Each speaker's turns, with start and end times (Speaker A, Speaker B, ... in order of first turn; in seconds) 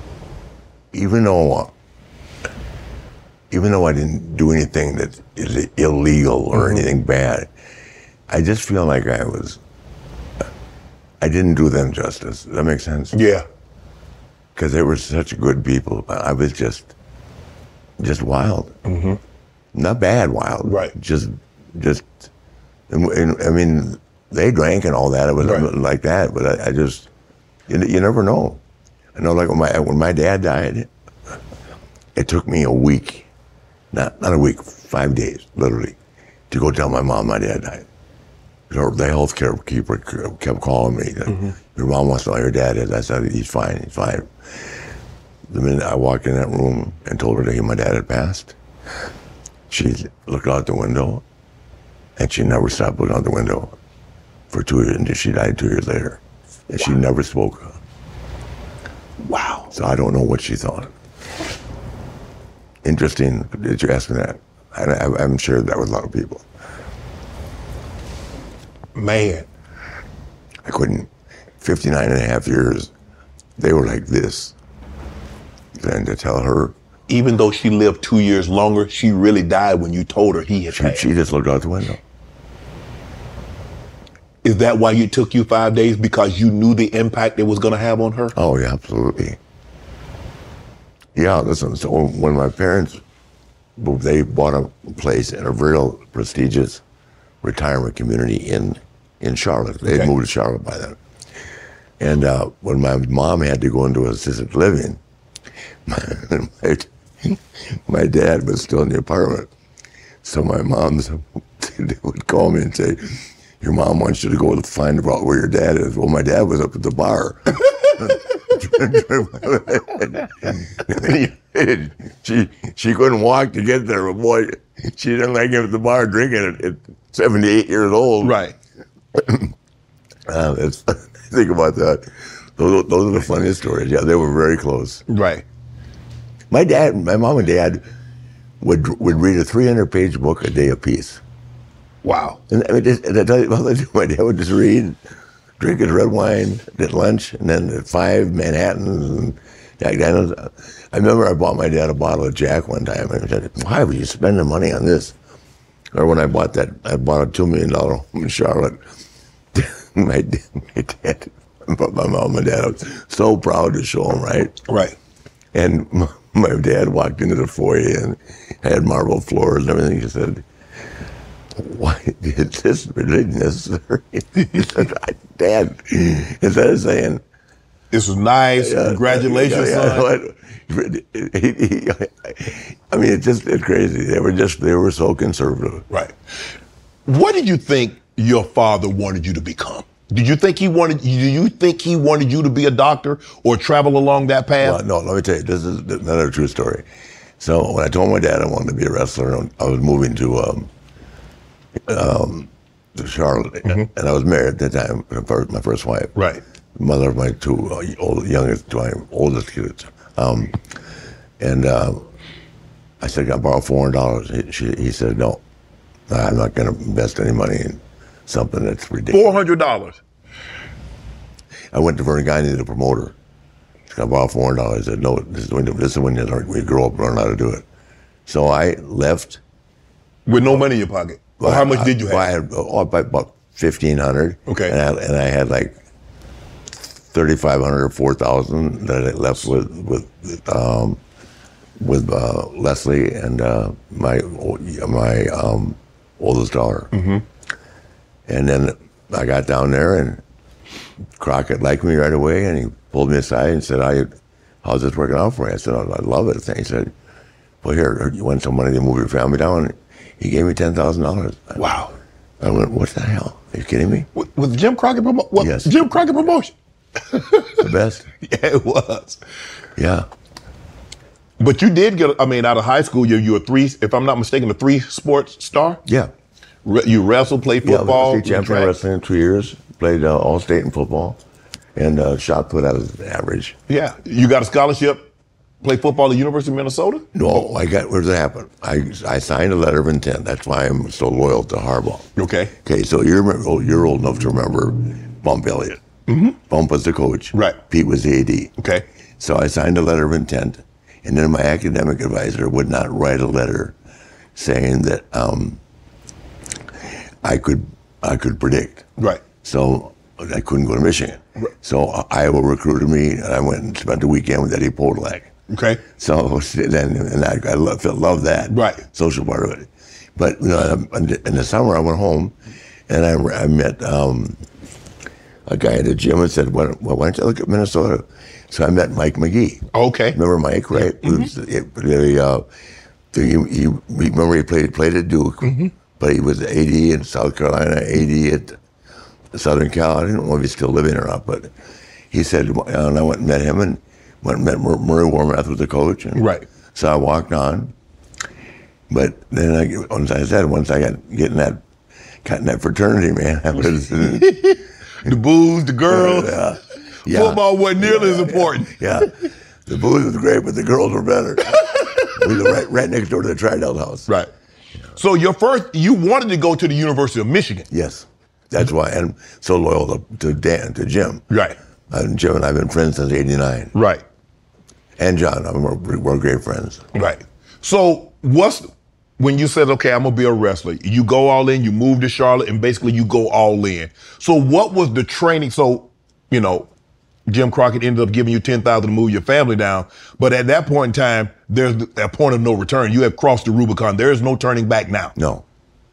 Speaker A: 0.9-1.7, 3.5-7.5, 8.3-9.6, 11.2-13.2, 14.6-16.9, 18.0-18.8, 19.7-22.3, 22.9-27.1, 27.7-28.6, 29.1-30.9, 32.1-33.3, 33.9-36.0, 36.5-37.9, 38.7-44.3, 45.5-48.5, 49.7-51.2, 52.2-53.8, 54.5-57.8, 59.7-60.9, 62.8-66.5, 70.7-71.1, 71.6-72.9, 73.6-74.5, 75.8-76.7, 80.7-82.0, 88.3-89.4, 91.2-93.0, 93.8-96.8, 97.4-101.0, 102.0-105.0, 105.9-109.5, 110.2-128.4, 129.2-129.5, 130.3-135.0, 136.5-137.9, 138.6-141.2, 142.5-145.0, 145.6-155.2, 155.9-158.8, 159.5-164.6, 165.5-170.4, 171.6-177.2, 178.6-185.9, 194.6-196.8, 197.4-200.7, 201.8-206.2, 206.8-210.6, 211.4-212.1, 213.0-215.4, 216.1-219.4, 221.7-223.2, 223.9-227.7, 228.3-229.4, 231.4-235.8, 237.0-241.0, 241.8-246.9, 248.3-250.2, 251.2-254.1, 254.6-256.9, 257.6-261.6, 262.4-264.1, 265.4-266.0, 267.6-268.1, 269.8-270.1, 275.9-276.1, 277.6-281.2, 281.8-283.6, 287.1-295.9, 296.4-298.6, 299.2-303.8, 304.4-305.6, 307.2-315.4, 315.9-322.3, 322.9-324.4, 325.5-332.4, 333.1-338.6, 339.3-341.5, 342.1-347.7, 348.9-351.6, 352.2-355.2, 355.9-359.1, 359.7-364.1, 367.7-371.3, 371.9-373.8, 375.0-376.9, 395.2-395.4
Speaker B: 6.5-6.8, 13.1-13.5, 18.9-19.2, 20.6-20.9, 25.4-25.7, 59.2-59.7, 69.0-69.5, 77.1-81.1, 84.4-88.3, 128.2-128.5, 135.1-135.4, 142.0-142.4, 164.7-165.0, 177.9-180.1, 187.1-194.8, 206.2-206.4, 219.1-220.0, 230.3-232.2, 234.5-234.8, 246.9-247.2, 261.6-261.9, 264.1-266.5, 267.1-267.6, 268.2-269.2, 271.4-275.8, 276.6-278.7, 283.7-285.1, 285.6-287.4, 292.2-292.5, 296.1-296.4, 297.3-297.6, 298.6-298.8, 309.0-309.2, 315.5-315.8, 318.5-318.8, 329.7-330.2, 330.8-331.2, 335.4-335.7, 346.2-346.4, 354.0-356.4, 357.1-358.8, 361.6-362.1, 365.0-367.7, 371.3-371.6, 373.7-374.0, 376.9-378.7, 379.2-386.7, 387.3-395.1